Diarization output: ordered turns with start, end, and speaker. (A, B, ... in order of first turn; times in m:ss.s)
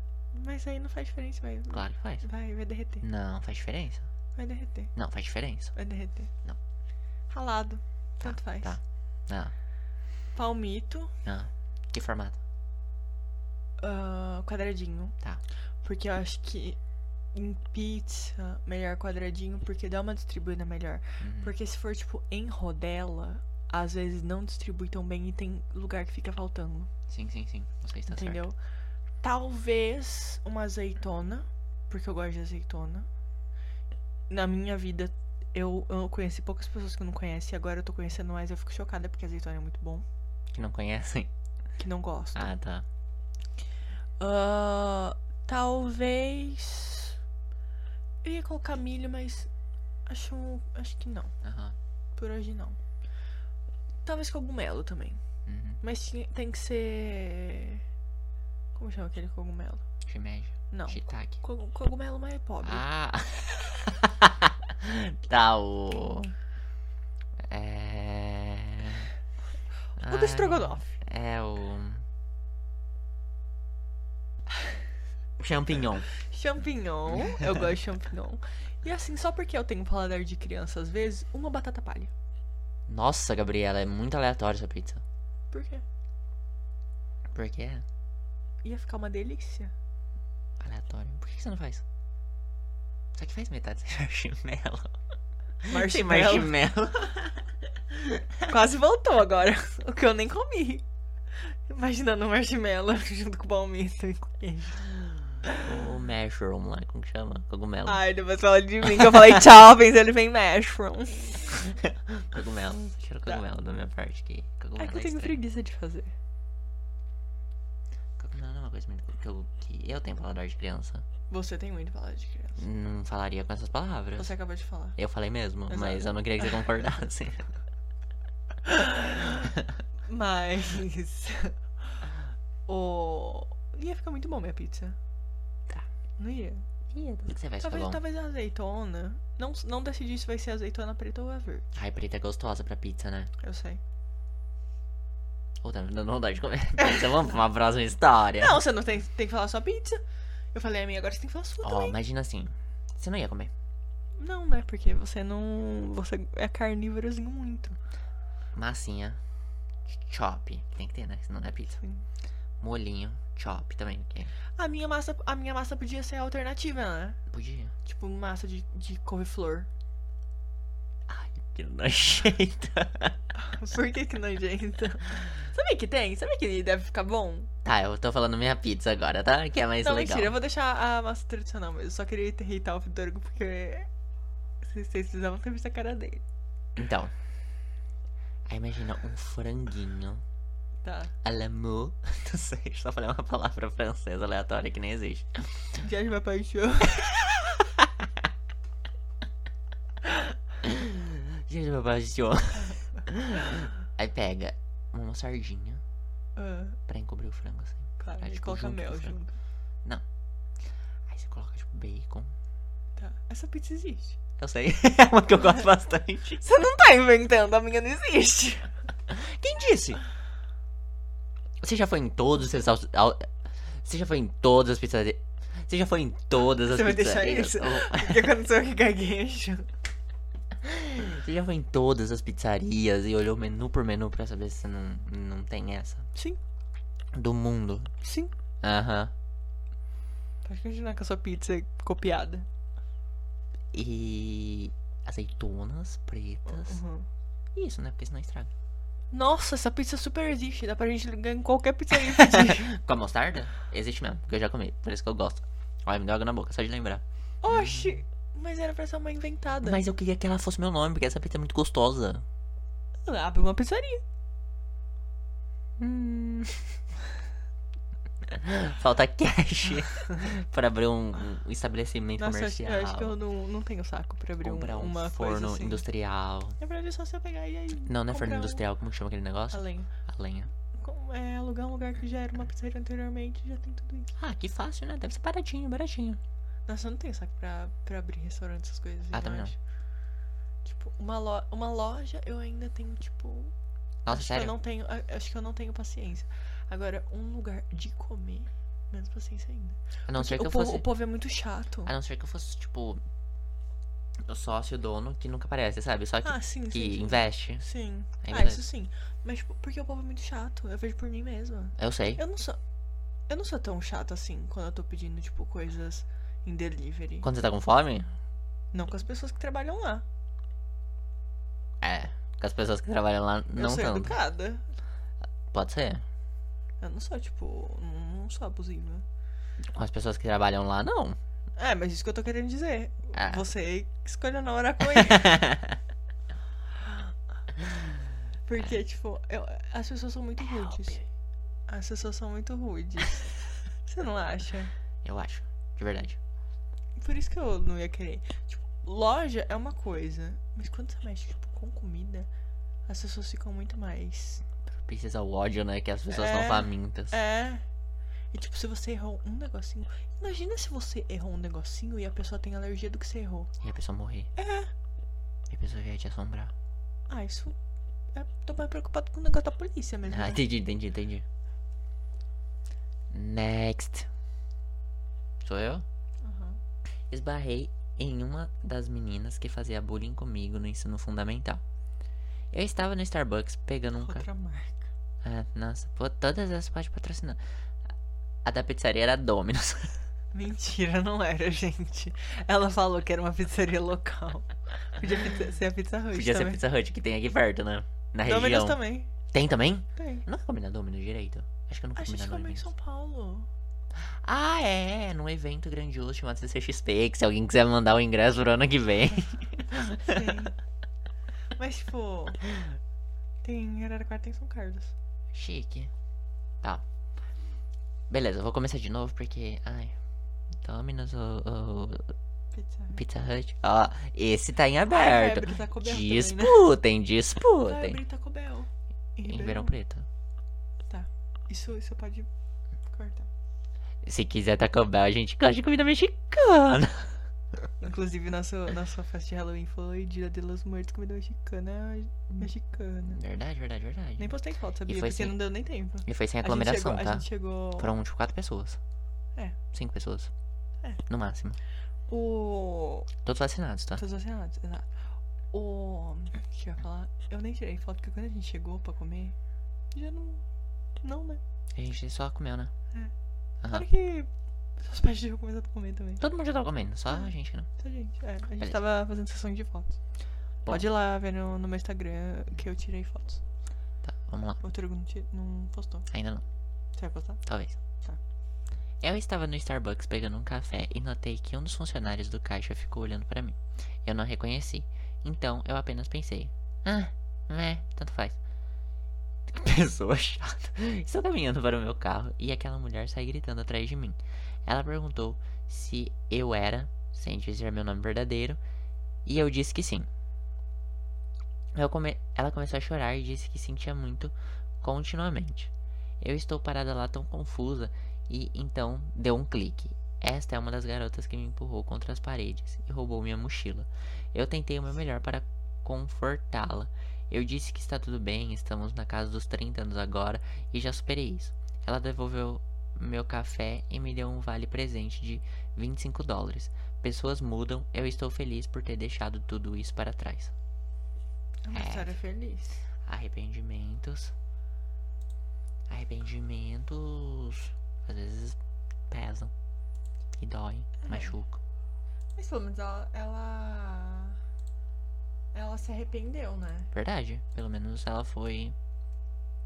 0:00.3-0:03.0 A
0:01.7-0:02.2 B
0:03.0-0:04.1 B
0:04.4-0:04.9 A
0:05.0-0:05.7 B
0:05.8-0:06.3 A
0:07.3-0:08.7 A
0:08.2-0:09.5 B
0:10.3-0:11.1 A
0:11.2-0:12.4 B
0:13.8-0:15.2 A
0:15.8-0:16.8 A
0:17.3-0:26.9 A
0:21.2-0:21.5 B
0:27.1-0:28.4 B
0:28.1-0:28.6 A
0:29.2-0:33.1 A
0:34.3-0:40.0 A
0:40.5-0:41.3 B
0:41.8-0:42.5 A
0:42.3-0:42.8 B
0:44.2-0:47.2 A
0:48.2-0:49.5 A
0:50.1-0:51.3 A
0:51.4-0:51.8 B
0:52.2-0:52.8 A
0:54.0-0:55.2 A
0:55.4-0:55.8 B
0:55.8-0:57.8 A
0:58.7-0:59.8 A
1:00.0-1:01.4 B
1:00.7-1:02.8 A
1:02.6-1:06.3 B
1:07.4-1:09.1 B
1:10.0-1:12.0 B
1:10.0-1:10.9 A
1:15.4-1:16.1 B
1:16.1-1:22.1 A
1:17.1-1:17.6 B
1:22.9-1:25.0 B
1:25.5-1:25.8 A
1:27.3-1:27.8 B
1:28.6-1:29.7 A
1:30.6-1:31.8 B
1:33.1-1:34.9 B
1:35.6-1:37.5 B
1:35.6-1:36.5 A
1:38.4-1:40.8 A
1:41.7-1:45.7 A
1:45.6-1:48.0 B
1:47.8-1:51.7 A
1:49.0-1:49.3 B
1:51.7-1:55.4 B
1:54.8-1:56.1 A
1:58.2-2:01.0 B
2:01.3-2:02.6 A
2:02.6-2:04.3 B
2:04.2-2:05.0 A
2:05.0-2:07.5 B
2:05.7-2:06.6 A
2:08.6-2:09.5 A
2:10.1-2:11.6 A
2:12.7-2:15.0 A
2:16.2-2:16.6 A
2:16.9-2:18.0 B
2:17.6-2:21.7 A
2:21.7-2:23.3 B
2:23.4-2:23.8 A
2:25.6-2:28.6 B
2:28.4-2:30.0 A
2:30.5-2:32.0 A
2:31.6-2:33.5 B
2:34.2-2:37.8 A
2:38.5-2:39.2 B
2:39.9-2:41.8 B
2:41.8-2:42.0 A
2:42.6-2:44.3 B
2:44.6-2:47.2 A
2:47.3-2:47.7 B
2:47.8-2:49.7 A
2:51.1-2:53.2 B
2:53.3-2:57.5 A
2:57.6-3:00.3 B
2:59.8-3:03.9 A
3:04.6-3:06.2 A
3:06.8-3:07.1 B
3:08.5-3:10.2 B
3:10.8-3:11.1 A
3:11.2-3:15.8 B
3:15.8-3:17.6 A
3:20.6-3:25.8 B
3:26.4-3:26.8 A
3:26.9-3:29.2 B
3:28.0-3:29.4 A
3:31.1-3:32.3 B
3:33.0-3:34.2 A
3:34.4-3:36.4 B
3:36.4-3:38.7 A
3:39.1-3:40.0 B
3:41.6-3:48.3 B
3:46.6-3:49.7 A
3:50.6-3:56.1 B
3:57.1-3:57.9 B
3:58.0-3:58.3 A
3:58.6-3:59.1 B
4:00.4-4:02.4 A
4:03.7-4:06.8 B
4:06.4-4:07.1 A
4:07.5-4:08.5 B
4:09.1-4:12.7 A
4:11.9-4:17.9 B
4:17.4-4:19.8 A
4:19.6-4:22.2 B
4:23.0-4:24.0 A
4:25.8-4:26.6 B
4:28.2-4:33.1 B
4:32.2-4:35.8 A
4:34.4-4:36.6 B
4:36.6-4:38.6 A
4:37.8-4:40.5 B
4:39.5-4:39.9 A
4:40.8-4:44.1 A
4:44.2-4:46.2 B
4:46.7-4:49.6 A
4:49.1-4:49.5 B
4:50.6-4:53.5 A
4:54.0-4:54.5 B
4:54.1-5:01.9 A
5:00.1-5:00.8 B
5:01.8-5:03.0 B
5:04.2-5:07.6 B
5:06.2-5:12.6 A
5:08.2-5:08.6 B
5:11.8-5:12.2 B
5:13.3-5:17.3 A
5:17.2-5:18.1 B
5:18.7-5:20.0 A
5:21.8-5:24.2 B
5:23.6-5:24.6 A
5:25.5-5:26.0 B
5:26.8-5:29.0 A
5:29.6-5:31.2 B
5:31.6-5:35.4 A
5:33.1-5:33.4 B
5:34.9-5:35.8 B
5:38.5-5:41.0 A
5:40.4-5:41.0 B
5:41.7-5:44.7 A
5:45.0-5:46.2 B
5:47.0-5:52.3 A
5:52.9-5:54.4 A
5:54.7-5:57.2 B
5:56.1-5:57.6 A
5:58.3-6:03.5 A
6:03.6-6:04.3 B
6:04.4-6:04.7 A
6:05.5-6:06.5 B
6:07.1-6:07.6 A
6:08.1-6:10.4 A
6:10.1-6:11.2 B
6:13.1-6:14.1 B
6:15.4-6:15.8 B
6:16.2-6:16.6 A
6:17.1-6:21.6 B
6:22.5-6:24.3 B
6:24.0-6:24.9 A
6:25.2-6:27.4 B
6:28.4-6:30.0 B
6:30.3-6:36.6 A
6:36.1-6:42.6 B
6:38.2-6:39.1 A
6:40.0-6:40.2 A
6:42.0-6:43.5 A
6:43.9-6:50.4 B
6:49.7-6:50.6 A
6:51.6-6:52.5 A
6:53.4-6:54.9 A
6:55.3-6:55.9 B
6:58.1-7:00.0 B
7:00.6-7:02.1 B
7:02.5-7:03.0 A
7:02.9-7:08.0 B
7:04.9-7:06.7 A
7:07.6-7:09.7 A
7:09.2-7:10.1 B
7:10.9-7:12.3 A
7:12.9-7:13.3 A
7:14.0-7:17.2 B
7:17.8-7:23.2 A
7:23.1-7:24.3 B
7:24.2-7:27.9 A
7:24.9-7:25.4 B
7:26.0-7:28.8 B
7:29.7-7:30.3 B
7:31.1-7:31.6 B
7:32.1-7:33.1 A
7:33.2-7:34.0 B
7:34.0-7:34.9 A
7:35.5-7:39.4 A
7:39.9-7:40.4 A
7:41.0-7:41.4 A
7:41.7-7:42.7 B
7:43.7-7:46.2 A
7:46.2-7:47.7 B
7:47.1-7:50.0 A
7:50.7-7:53.4 A
7:54.0-7:54.6 B
7:54.6-7:56.1 A
7:56.1-7:56.4 B
7:57.0-7:58.2 A
7:57.4-7:57.8 B
7:59.0-8:08.4 B
8:09.5-8:18.6 B
8:19.2-8:20.1 B
8:21.7-8:50.5 B
8:51.6-8:52.8 A
8:51.7-8:52.1 B
8:53.0-8:54.3 B
8:55.9-8:58.6 B
8:59.1-8:59.5 B
9:00.3-9:01.6 B
9:01.0-9:01.3 A
9:02.4-9:04.4 A
9:05.5-9:06.9 A
9:06.9-9:08.8 B